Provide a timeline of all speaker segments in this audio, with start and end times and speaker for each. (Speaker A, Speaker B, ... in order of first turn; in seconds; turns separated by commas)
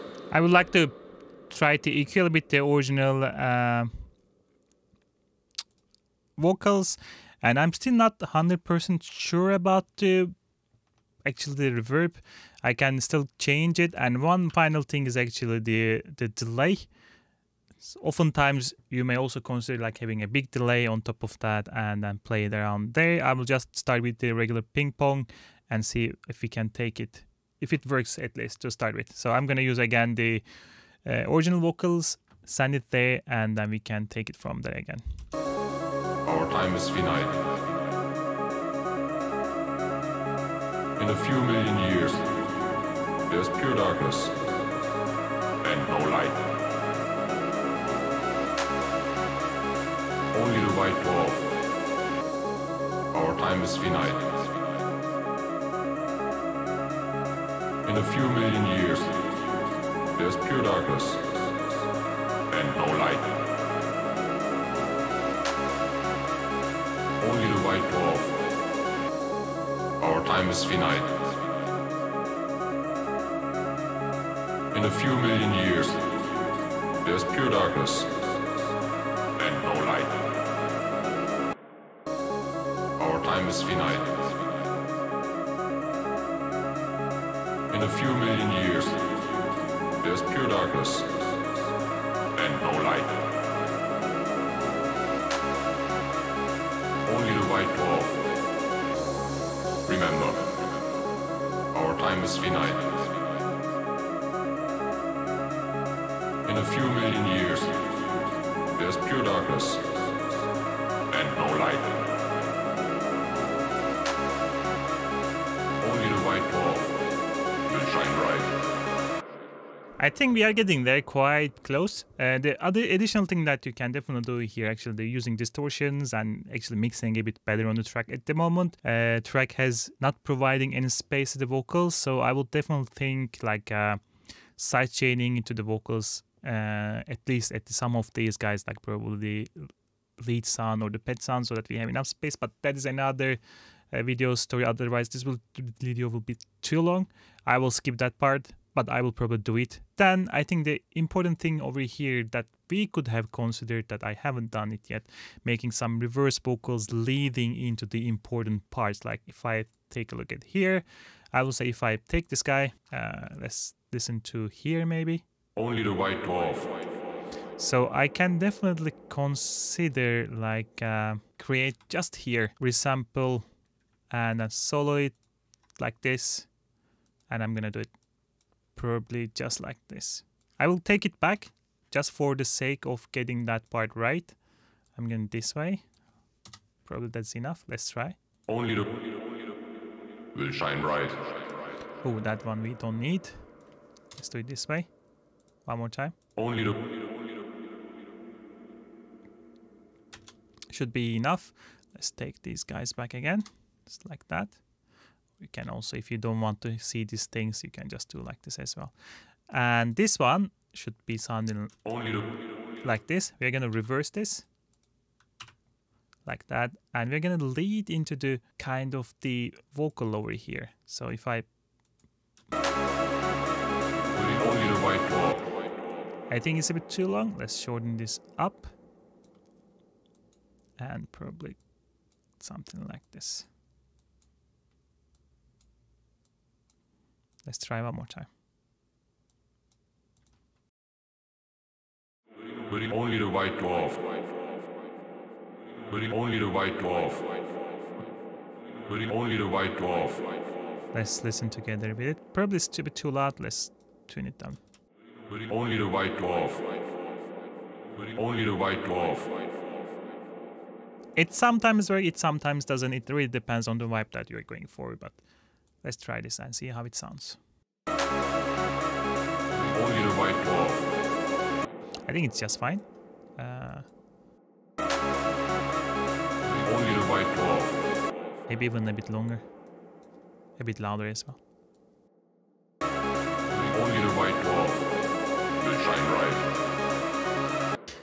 Speaker A: 0.3-0.9, Speaker A: 1.5-3.9, Speaker A: 6.4-10.3, Speaker A: 11.2-16.9, Speaker A: 17.8-30.4, Speaker A: 31.0-35.0, Speaker B: 36.2-37.8, Speaker B: 41.0-42.5, Speaker B: 43.3-44.5, Speaker B: 45.6-46.6, Speaker B: 50.3-51.6, Speaker B: 53.1-54.6, Speaker B: 57.8-59.5, Speaker B: 60.1-61.6, Speaker B: 62.5-63.4, Speaker B: 67.2-68.5, Speaker B: 70.0-71.4, Speaker B: 74.7-76.3, Speaker B: 77.0-78.4, Speaker B: 79.4-80.4, Speaker B: 83.0-84.5, Speaker B: 87.7-89.4, Speaker B: 90.0-91.4, Speaker B: 92.3-93.4, Speaker B: 97.0-98.4, Speaker B: 99.8-100.7, Speaker B: 101.7-103.3, Speaker B: 106.4-108.2, Speaker B: 108.7-110.0, Speaker B: 111.1-112.3, Speaker B: 115.8-117.0, Speaker B: 117.7-118.6, Speaker A: 120.0-134.0, Speaker A: 134.6-143.4, Speaker A: 143.9-165.2, Speaker B: 165.6-166.9, Speaker A: 167.6-173.5, Speaker A: 174.1-175.2, Speaker A: 175.8-176.5, Speaker A: 177.3-177.9, Speaker A: 178.7-184.3, Speaker A: 184.9-185.8, Speaker A: 186.8-188.2, Speaker B: 188.5-189.2, Speaker B: 190.3-191.7, Speaker A: 192.0-193.4, Speaker A: 194.1-194.9, Speaker A: 195.7-196.1, Speaker B: 196.3-197.1, Speaker A: 200.7-204.6, Speaker A: 205.4-208.9, Speaker A: 209.5-211.8, Speaker B: 211.9-212.2, Speaker A: 212.8-214.4, Speaker A: 216.2-221.5, Speaker B: 224.1-225.5, Speaker A: 226.3-228.7, Speaker A: 230.8-231.6, Speaker A: 232.4-233.5, Speaker A: 237.4-238.3, Speaker B: 242.5-244.2, Speaker B: 245.8-247.5, Speaker B: 248.7-250.4, Speaker A: 250.9-254.6, Speaker B: 255.2-256.9, Speaker B: 257.9-259.5, Speaker A: 261.2-265.2, Speaker A: 265.8-267.4, Speaker B: 269.5-271.0, Speaker A: 272.1-272.8, Speaker A: 273.4-273.9, Speaker B: 276.4-278.0, Speaker A: 278.5-279.4, Speaker A: 280.6-281.4, Speaker B: 283.5-285.0, Speaker B: 285.6-286.5